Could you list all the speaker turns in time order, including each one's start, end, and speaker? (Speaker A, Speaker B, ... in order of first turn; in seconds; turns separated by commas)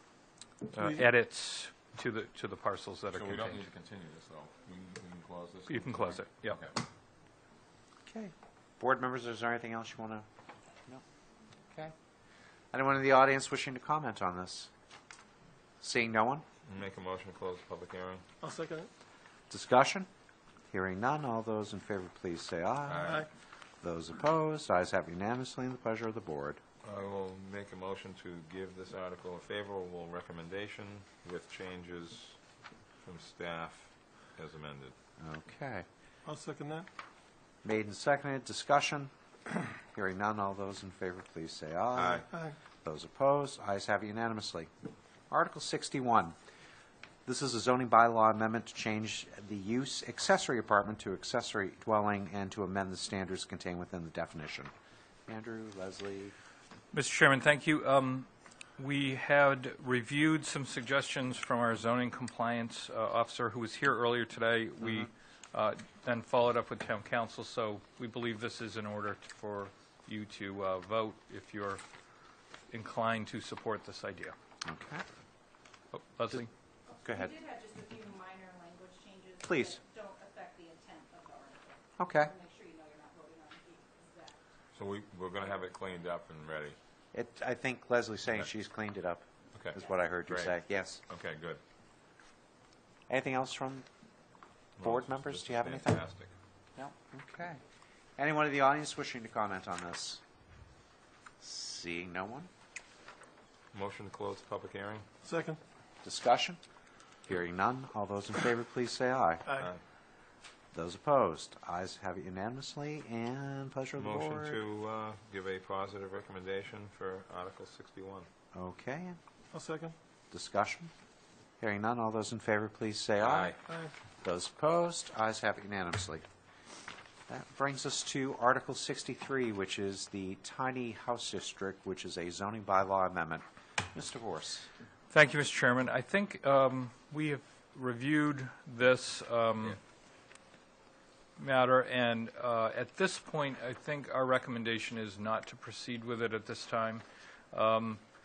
Speaker A: 0.7-3.6, Speaker B: 3.1-6.8, Speaker A: 5.7-6.6, Speaker C: 8.1-10.2, Speaker C: 12.7-14.7, Speaker C: 15.8-16.4, Speaker B: 16.6-18.2, Speaker D: 18.4-18.9, Speaker C: 19.5-20.1, Speaker C: 20.7-23.2, Speaker B: 22.9-23.3, Speaker C: 23.8-26.6, Speaker B: 26.8-32.4, Speaker B: 33.0-34.9, Speaker C: 35.2-35.9, Speaker D: 36.2-36.9, Speaker C: 37.6-39.1, Speaker C: 39.9-42.3, Speaker B: 41.9-42.3, Speaker C: 42.8-44.7, Speaker C: 45.3-46.3, Speaker C: 47.2-54.7, Speaker C: 55.3-56.3, Speaker A: 56.9-71.8, Speaker A: 72.7-74.3, Speaker C: 74.6-75.0, Speaker A: 75.9-76.5, Speaker C: 77.0-77.3, Speaker E: 77.1-84.4, Speaker C: 79.4-79.8, Speaker C: 82.0-82.3, Speaker B: 84.7-86.8, Speaker C: 87.1-91.0, Speaker B: 89.5-91.6, Speaker C: 93.1-93.8, Speaker C: 94.8-96.0, Speaker B: 94.8-96.3, Speaker C: 96.8-97.6, Speaker C: 98.2-100.2, Speaker C: 101.4-102.5, Speaker B: 103.7-105.0, Speaker D: 105.2-105.6, Speaker C: 106.0-106.6, Speaker C: 107.2-109.5, Speaker C: 110.7-114.6, Speaker B: 114.0-118.3, Speaker C: 118.5-119.2, Speaker D: 119.5-119.9, Speaker C: 120.3-120.9, Speaker C: 121.6-123.6, Speaker B: 123.2-123.6, Speaker C: 124.2-126.2, Speaker C: 127.3-134.7, Speaker A: 135.1-139.8, Speaker A: 141.4-148.0